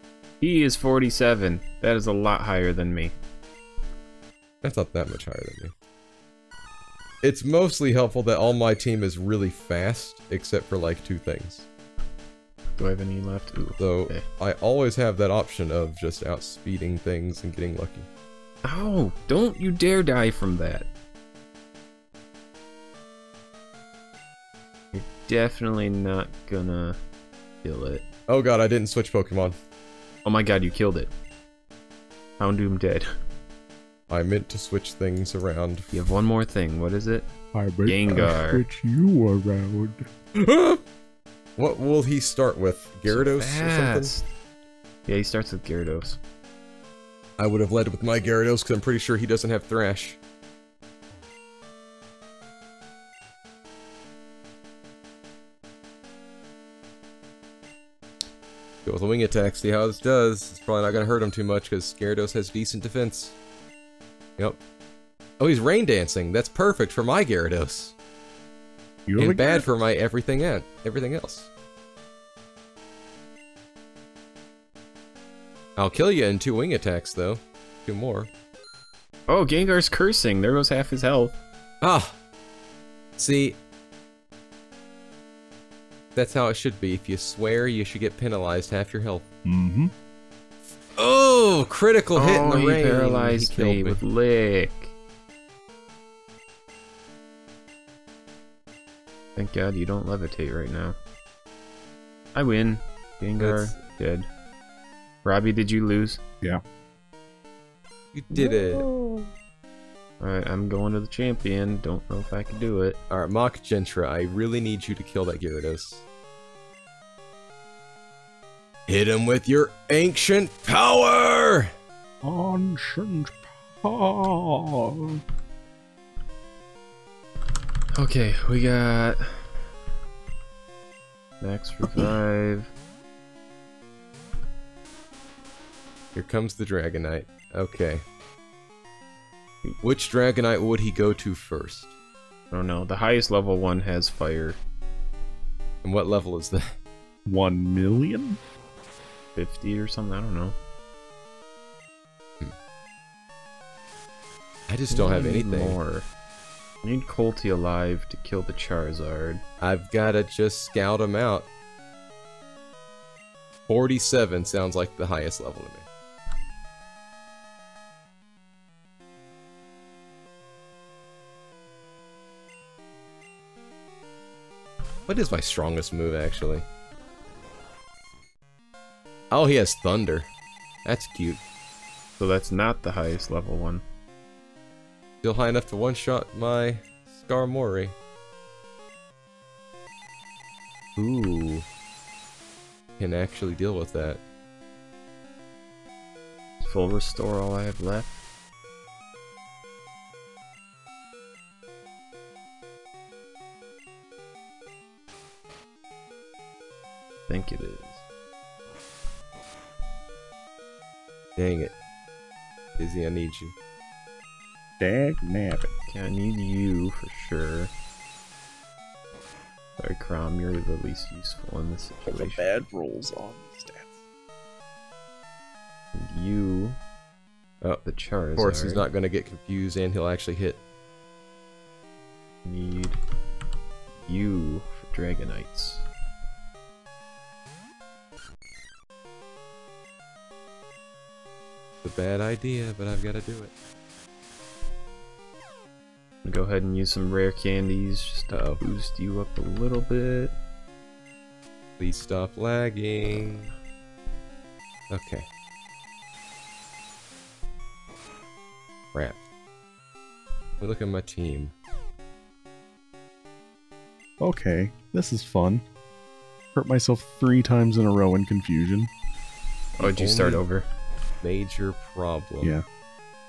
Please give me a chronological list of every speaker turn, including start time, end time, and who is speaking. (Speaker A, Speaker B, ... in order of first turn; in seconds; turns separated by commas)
Speaker A: 0.4-3.1, Speaker B: 4.6-5.7, Speaker B: 7.2-11.7, Speaker A: 12.8-14.2, Speaker B: 13.8-18.1, Speaker A: 18.6-20.9, Speaker A: 24.9-27.0, Speaker A: 27.6-28.1, Speaker B: 28.3-29.5, Speaker A: 30.2-31.1, Speaker A: 32.4-33.0, Speaker B: 34.1-35.9, Speaker A: 35.9-37.3, Speaker C: 37.5-40.0, Speaker A: 37.9-38.6, Speaker B: 40.4-40.8, Speaker B: 41.6-44.1, Speaker A: 43.1-44.3, Speaker A: 45.0-46.2, Speaker B: 47.4-50.2, Speaker B: 58.8-63.4, Speaker B: 65.4-67.9, Speaker C: 69.0-69.7, Speaker B: 69.2-71.5, Speaker B: 75.8-78.3, Speaker A: 79.3-81.3, Speaker B: 81.8-82.2, Speaker B: 83.2-83.6, Speaker B: 86.2-89.2, Speaker C: 89.5-89.9, Speaker B: 91.0-94.0, Speaker A: 92.1-94.9, Speaker A: 99.3-101.0, Speaker A: 102.3-104.3, Speaker B: 103.4-103.8, Speaker A: 105.2-106.2, Speaker B: 108.1-108.9, Speaker C: 108.3-109.3, Speaker A: 110.2-113.0, Speaker B: 113.1-116.0, Speaker B: 118.9-121.7, Speaker C: 122.2-125.2, Speaker A: 127.9-129.5, Speaker A: 131.4-132.7, Speaker B: 136.1-138.0, Speaker B: 139.8-141.9, Speaker A: 142.5-144.6, Speaker B: 145.8-146.6, Speaker C: 147.2-148.4, Speaker A: 149.3-150.5, Speaker B: 154.7-155.8, Speaker A: 154.9-156.1, Speaker A: 156.8-159.4, Speaker B: 159.6-161.5, Speaker B: 163.7-165.8, Speaker B: 175.1-176.6, Speaker B: 179.3-180.3, Speaker B: 180.8-181.4, Speaker A: 182.2-183.8, Speaker B: 185.2-187.9, Speaker B: 191.0-191.7, Speaker B: 193.0-194.2, Speaker A: 196.6-198.2, Speaker A: 207.3-208.0, Speaker B: 211.4-211.7, Speaker B: 212.8-213.5, Speaker C: 214.8-215.7, Speaker A: 215.9-217.7, Speaker A: 219.8-222.5, Speaker C: 222.0-223.9, Speaker A: 225.9-226.8, Speaker A: 227.8-228.8, Speaker B: 228.3-230.6, Speaker A: 232.4-233.0, Speaker A: 234.0-235.8, Speaker B: 241.8-243.5, Speaker A: 246.2-250.3, Speaker B: 248.3-248.6, Speaker B: 251.8-253.5, Speaker B: 254.9-255.2, Speaker B: 258.9-259.2, Speaker B: 260.6-261.5, Speaker C: 264.2-265.6, Speaker C: 266.5-268.9, Speaker B: 269.8-270.4, Speaker A: 269.8-270.6, Speaker B: 271.2-272.5